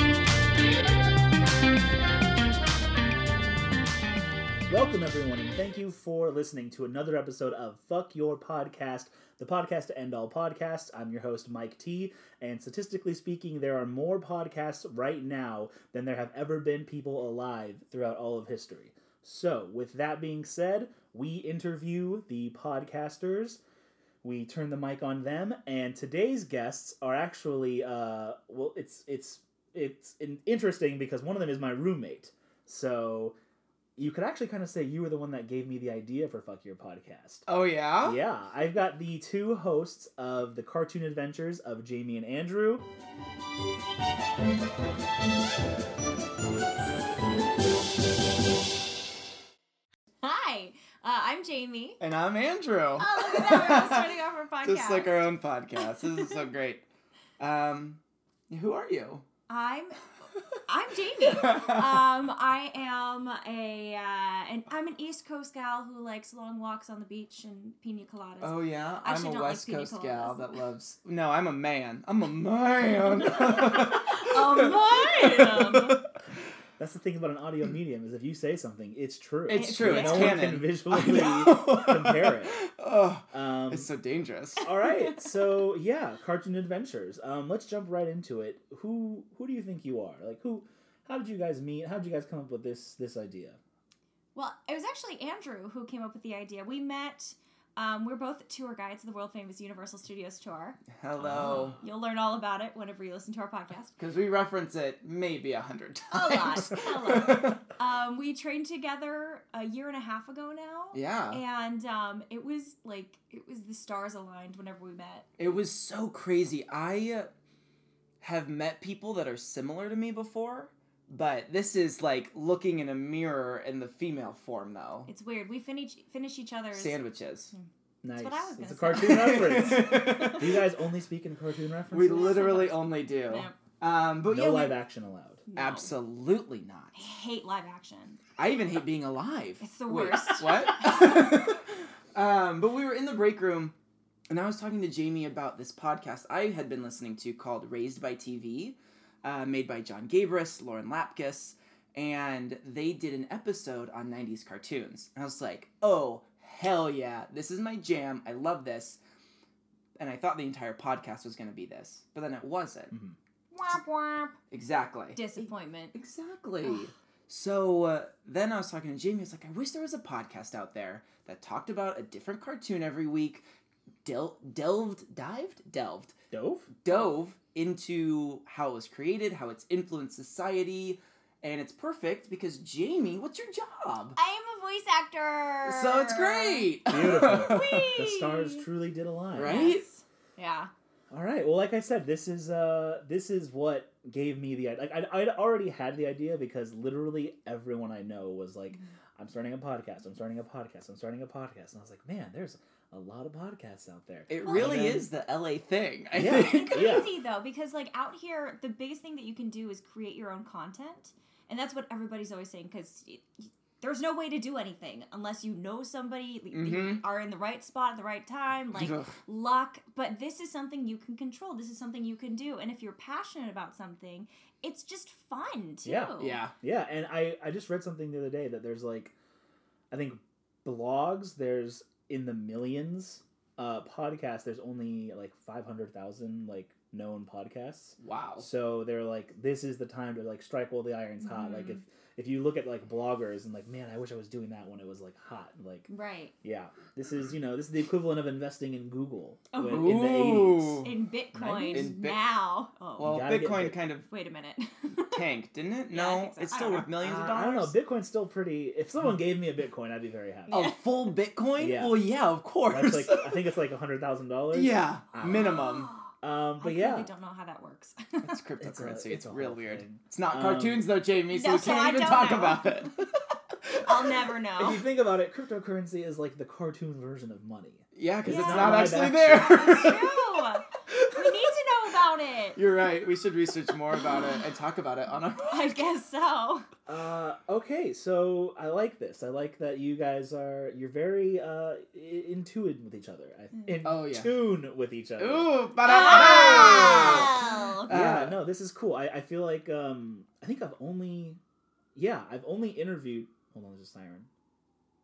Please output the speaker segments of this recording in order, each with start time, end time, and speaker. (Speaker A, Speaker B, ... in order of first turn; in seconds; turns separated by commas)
Speaker A: 4.7-23.6, Speaker A: 24.2-33.4, Speaker A: 34.0-37.5, Speaker B: 37.5-38.2, Speaker A: 38.0-42.9, Speaker C: 50.2-52.0, Speaker B: 52.0-56.8, Speaker C: 53.0-55.3, Speaker B: 57.4-59.3, Speaker C: 59.5-60.0, Speaker C: 60.7-70.6, Speaker B: 61.4-61.8, Speaker B: 68.4-76.0, Speaker C: 73.3-76.0, Speaker A: 76.8-82.6, Speaker C: 79.5-80.5, Speaker B: 79.5-84.7, Speaker A: 83.3-83.9, Speaker A: 84.6-93.6, Speaker C: 84.8-85.1, Speaker C: 94.3-100.8, Speaker B: 100.9-101.8, Speaker A: 101.2-101.8, Speaker C: 101.8-104.0, Speaker B: 104.0-107.6, Speaker C: 106.1-115.3, Speaker B: 110.9-111.4, Speaker B: 115.4-117.3, Speaker B: 118.2-125.1, Speaker C: 125.1-127.0, Speaker B: 126.7-127.5, Speaker C: 127.5-130.4, Speaker A: 128.0-132.7, Speaker B: 128.9-130.6, Speaker B: 131.9-134.8, Speaker C: 132.1-133.6, Speaker A: 134.3-135.4, Speaker C: 135.5-135.9, Speaker B: 135.6-137.0, Speaker C: 136.9-138.2, Speaker B: 138.4-143.7, Speaker C: 139.6-141.2, Speaker B: 144.3-159.0, Speaker B: 160.0-162.9, Speaker A: 162.9-163.2, Speaker C: 163.5-164.4, Speaker B: 164.5-165.3, Speaker C: 165.2-165.9, Speaker B: 165.9-173.4, Speaker B: 174.1-176.2, Speaker A: 176.3-176.7, Speaker B: 176.8-184.2, Speaker C: 184.2-186.7, Speaker B: 185.7-188.0, Speaker A: 186.9-189.6, Speaker C: 187.3-188.7, Speaker B: 189.3-189.8, Speaker C: 189.4-190.7, Speaker A: 191.1-205.1, Speaker B: 204.3-207.1, Speaker C: 204.4-204.9, Speaker A: 206.1-207.1, Speaker C: 206.3-226.4, Speaker B: 216.5-217.0, Speaker B: 218.8-219.2, Speaker A: 225.8-229.1, Speaker B: 226.2-226.5, Speaker A: 229.9-245.9, Speaker B: 238.0-238.5, Speaker C: 241.2-241.8, Speaker C: 245.9-246.3, Speaker A: 246.4-251.9, Speaker C: 249.5-250.1, Speaker B: 249.7-250.9, Speaker C: 250.8-253.3, Speaker B: 251.7-252.2, Speaker B: 253.0-254.1, Speaker A: 253.0-253.8, Speaker C: 254.1-255.2, Speaker B: 255.1-257.8, Speaker C: 255.9-256.9, Speaker A: 257.0-260.6, Speaker C: 260.5-260.8, Speaker B: 260.5-263.4, Speaker A: 261.6-262.0, Speaker A: 262.7-265.6, Speaker B: 264.5-265.9, Speaker C: 265.2-268.4, Speaker A: 266.2-267.1, Speaker B: 268.2-273.0, Speaker A: 268.6-270.9, Speaker C: 271.3-272.7, Speaker B: 273.6-273.9, Speaker C: 273.8-274.8, Speaker A: 274.6-279.9, Speaker B: 277.9-281.5, Speaker C: 278.2-282.6, Speaker B: 282.6-285.8, Speaker C: 285.4-286.7, Speaker A: 286.9-295.6, Speaker B: 293.8-294.5, Speaker B: 295.2-298.4, Speaker C: 295.8-297.9, Speaker A: 296.2-297.4, Speaker A: 297.9-301.4, Speaker A: 301.9-304.3